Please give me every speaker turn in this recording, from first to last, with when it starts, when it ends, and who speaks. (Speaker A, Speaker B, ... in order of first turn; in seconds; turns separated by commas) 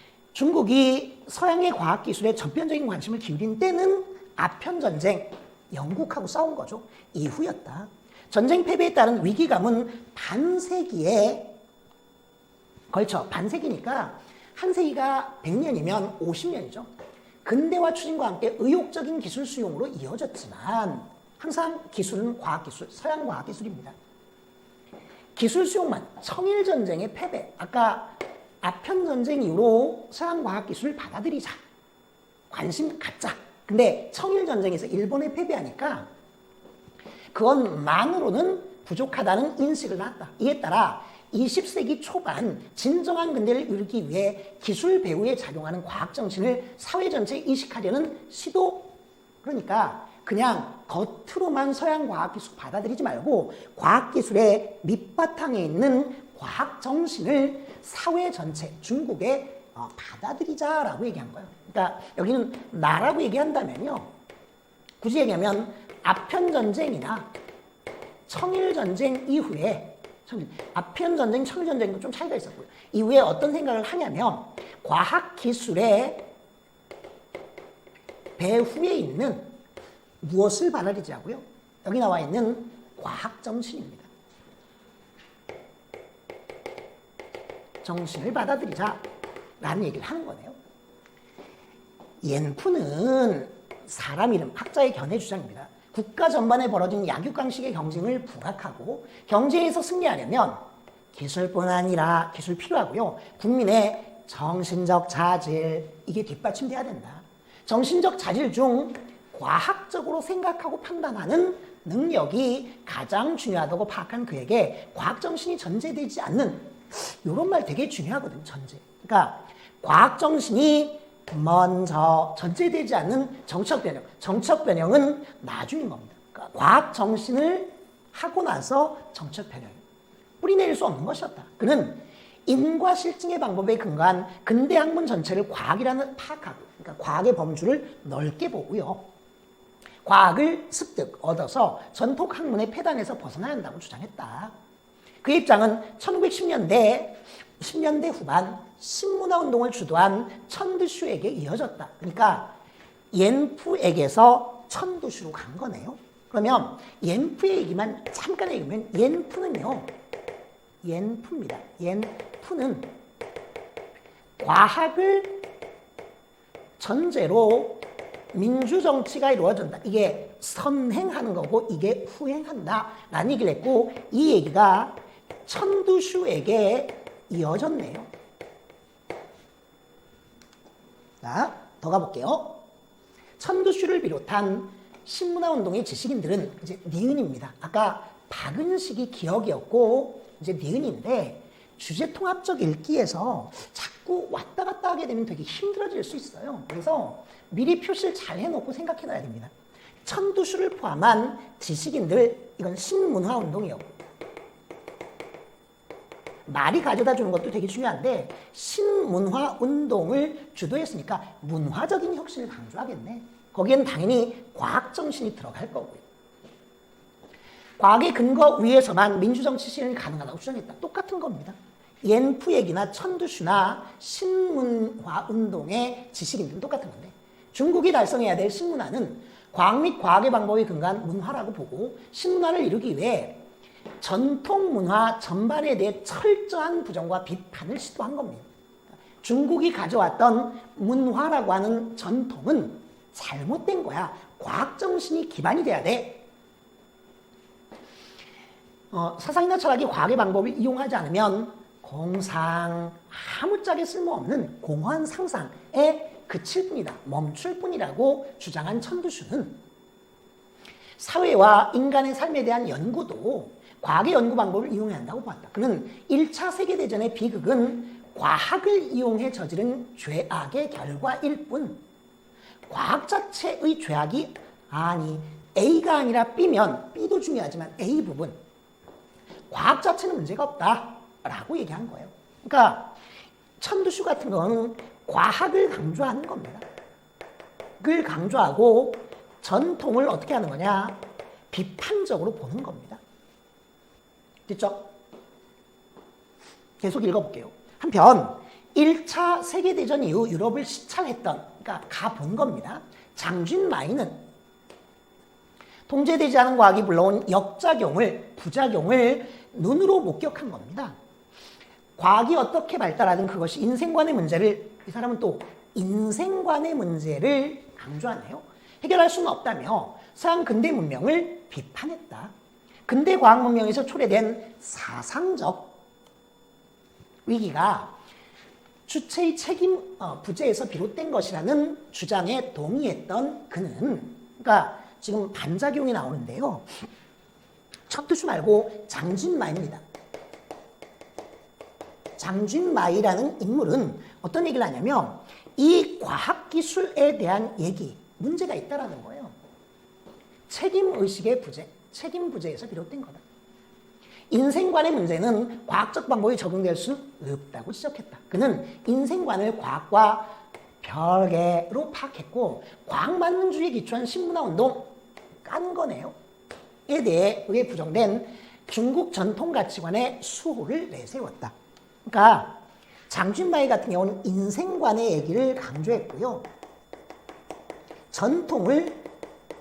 Speaker A: 0.3-11.6, Speaker A: 12.9-16.9, Speaker A: 17.4-23.9, Speaker A: 25.4-31.6, Speaker A: 32.5-36.1, Speaker A: 37.3-64.1, Speaker A: 65.0-67.3, Speaker A: 68.3-76.3, Speaker A: 78.4-79.5, Speaker A: 80.2-84.1, Speaker A: 87.8-89.0, Speaker A: 89.6-90.5, Speaker A: 92.2-129.8, Speaker A: 130.4-139.1, Speaker A: 140.0-144.5, Speaker A: 145.2-152.5, Speaker A: 153.1-159.9, Speaker A: 160.8-162.9, Speaker A: 164.4-165.4, Speaker A: 166.8-178.1, Speaker A: 181.2-182.6, Speaker A: 183.4-199.5, Speaker A: 200.0-203.9, Speaker A: 206.4-216.0, Speaker A: 217.8-233.4, Speaker A: 234.0-238.5, Speaker A: 239.2-246.2, Speaker A: 248.9-259.6, Speaker A: 261.0-271.8, Speaker A: 272.7-278.4, Speaker A: 279.5-282.9, Speaker A: 283.6-286.6, Speaker A: 287.8-293.0, Speaker A: 294.5-294.9, Speaker A: 296.8-304.2, Speaker A: 305.9-310.9, Speaker A: 312.0-322.3, Speaker A: 322.9-325.8, Speaker A: 327.2-327.9, Speaker A: 328.9-336.8, Speaker A: 337.9-339.8, Speaker A: 342.2-349.3, Speaker A: 350.5-353.2, Speaker A: 354.3-366.1, Speaker A: 366.9-371.5, Speaker A: 372.1-376.5, Speaker A: 378.1-379.1